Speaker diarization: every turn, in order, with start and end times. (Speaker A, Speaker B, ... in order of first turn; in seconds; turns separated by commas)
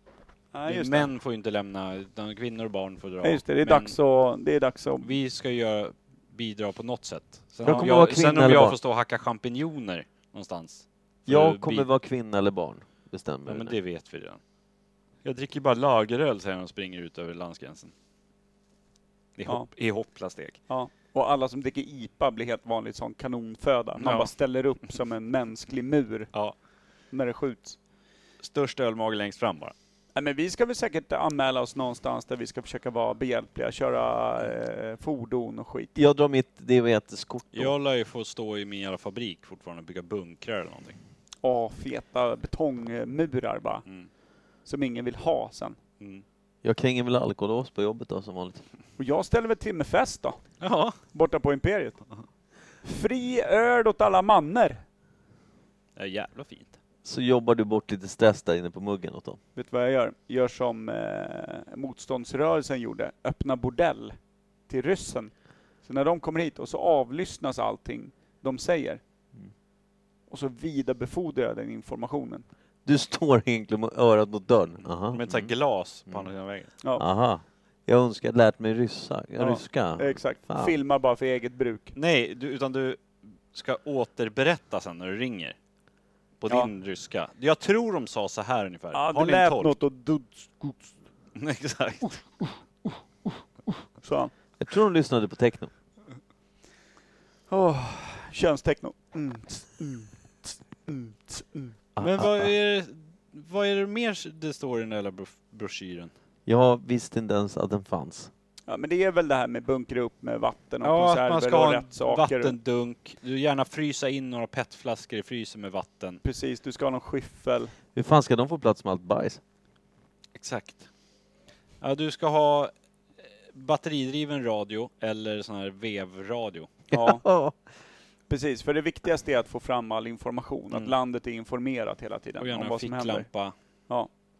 Speaker A: 0.5-1.1, Speaker B: 0.7-3.9, Speaker A: 3.2-5.1, Speaker B: 5.0-11.8, Speaker C: 7.6-8.8, Speaker C: 11.3-13.7, Speaker B: 13.4-14.4, Speaker B: 15.2-17.9, Speaker B: 19.4-20.6, Speaker A: 20.7-26.3, Speaker B: 24.0-24.3, Speaker A: 27.1-27.8, Speaker B: 28.4-29.7, Speaker A: 30.1-35.9, Speaker C: 35.9-37.7, Speaker B: 37.5-41.0, Speaker A: 41.4-43.8, Speaker A: 44.6-45.8, Speaker C: 46.6-48.6, Speaker A: 49.0-50.4, Speaker B: 50.6-51.0, Speaker A: 51.1-52.0, Speaker A: 52.8-54.8, Speaker B: 56.0-56.8, Speaker C: 57.0-59.4, Speaker A: 59.5-64.2, Speaker A: 64.7-69.0, Speaker A: 70.3-72.4, Speaker C: 72.8-75.5, Speaker B: 75.1-76.7, Speaker C: 77.0-80.7, Speaker A: 79.4-81.9, Speaker B: 81.9-85.5, Speaker B: 86.4-89.7, Speaker A: 88.9-91.0, Speaker B: 91.3-92.2, Speaker A: 94.0-94.3, Speaker C: 94.6-95.7, Speaker A: 97.5-101.8, Speaker C: 102.0-102.5, Speaker B: 102.0-106.1, Speaker C: 106.5-108.3, Speaker A: 108.7-112.5, Speaker B: 110.8-116.2, Speaker A: 116.2-117.7, Speaker C: 117.9-119.4, Speaker B: 120.3-120.9, Speaker B: 121.8-122.7, Speaker B: 123.5-126.7, Speaker A: 126.9-127.2, Speaker C: 126.9-127.6, Speaker A: 128.3-133.3, Speaker B: 132.4-133.5